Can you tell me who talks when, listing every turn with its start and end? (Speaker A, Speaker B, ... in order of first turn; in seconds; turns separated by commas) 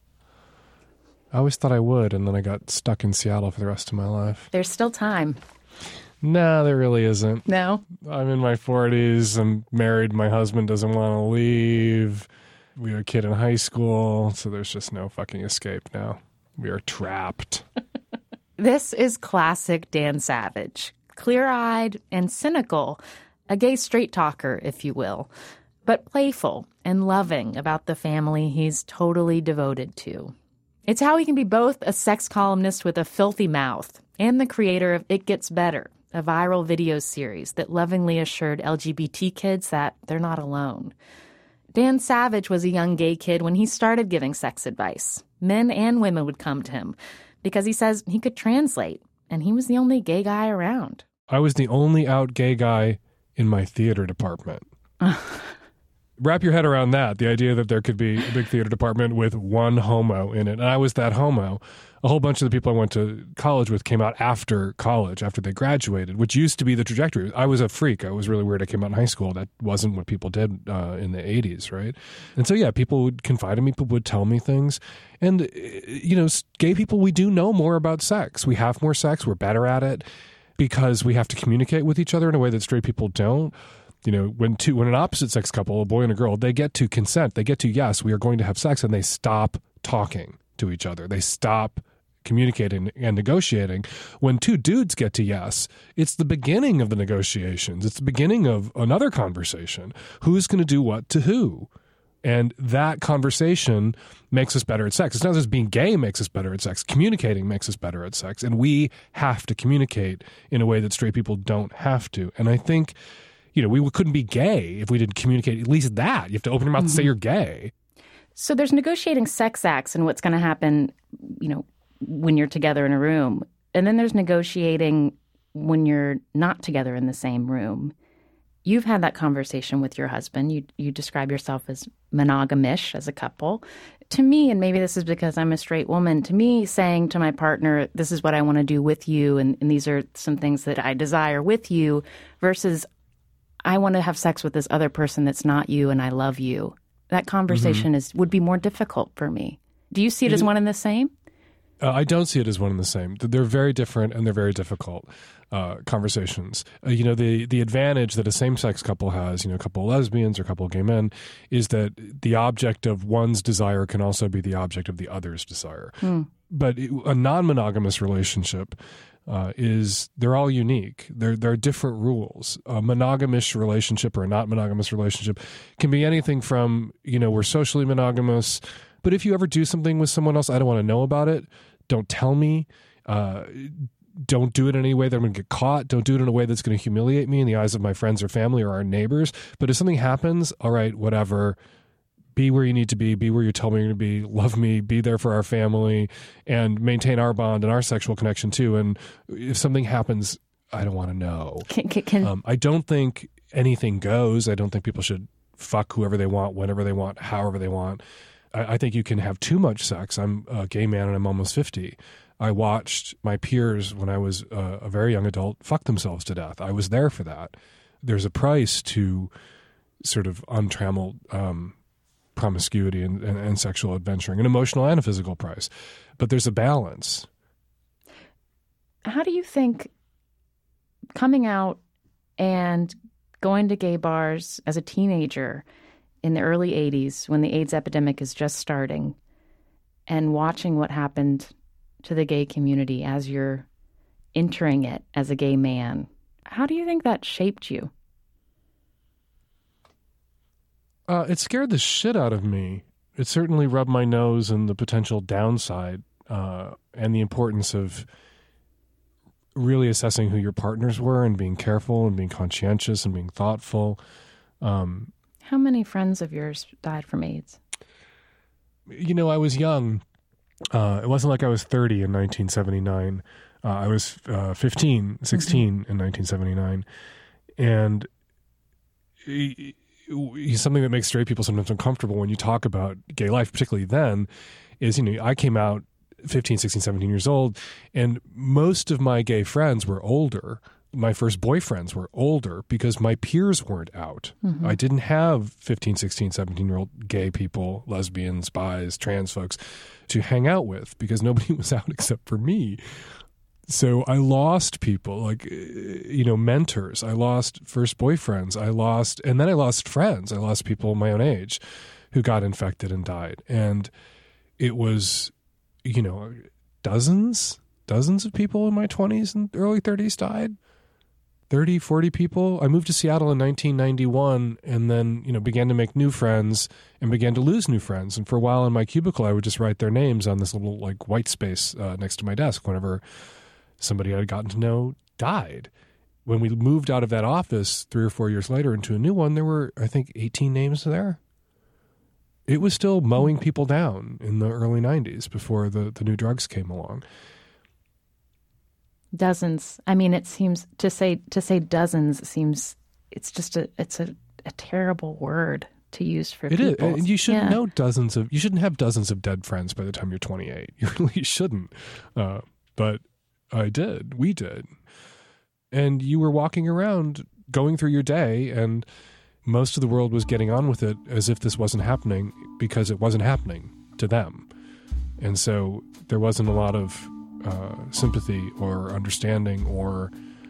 Speaker A: 1.3-4.5, Speaker B: 4.5-5.4, Speaker A: 6.2-17.6, Speaker B: 7.5-7.8, Speaker B: 18.6-25.3, Speaker B: 25.8-30.3, Speaker B: 30.9-40.9, Speaker B: 41.7-51.0, Speaker A: 51.3-54.6, Speaker B: 55.0-55.5, Speaker A: 56.2-80.0, Speaker A: 80.6-101.7, Speaker A: 102.2-113.0, Speaker A: 113.5-117.7, Speaker B: 118.3-127.9, Speaker B: 128.6-142.9, Speaker B: 143.6-151.1, Speaker A: 147.5-147.9, Speaker A: 151.8-168.8, Speaker B: 166.0-166.3, Speaker A: 169.3-191.6, Speaker A: 192.3-201.7, Speaker B: 201.7-202.3, Speaker A: 202.2-208.0, Speaker A: 208.5-219.3, Speaker A: 220.0-221.7, Speaker A: 222.3-227.3, Speaker B: 229.0-229.9, Speaker B: 231.1-231.8, Speaker B: 232.4-235.6, Speaker B: 236.2-239.2, Speaker B: 240.1-241.5, Speaker B: 242.0-243.7, Speaker B: 244.3-247.9, Speaker A: 251.1-258.1, Speaker A: 259.5-264.0, Speaker A: 264.6-265.1, Speaker B: 265.4-267.6, Speaker A: 268.9-270.0, Speaker A: 270.7-276.9, Speaker A: 277.6-278.1, Speaker A: 279.2-284.3, Speaker A: 284.8-302.8, Speaker B: 294.4-294.7, Speaker A: 303.7-311.6, Speaker A: 312.1-313.9, Speaker A: 314.6-315.3, Speaker A: 315.8-320.6, Speaker A: 321.5-333.0, Speaker A: 333.8-335.7, Speaker A: 336.2-341.2, Speaker A: 342.5-347.0, Speaker B: 349.1-357.6, Speaker A: 356.5-364.7, Speaker A: 365.7-368.9, Speaker A: 369.4-374.5, Speaker A: 375.2-380.1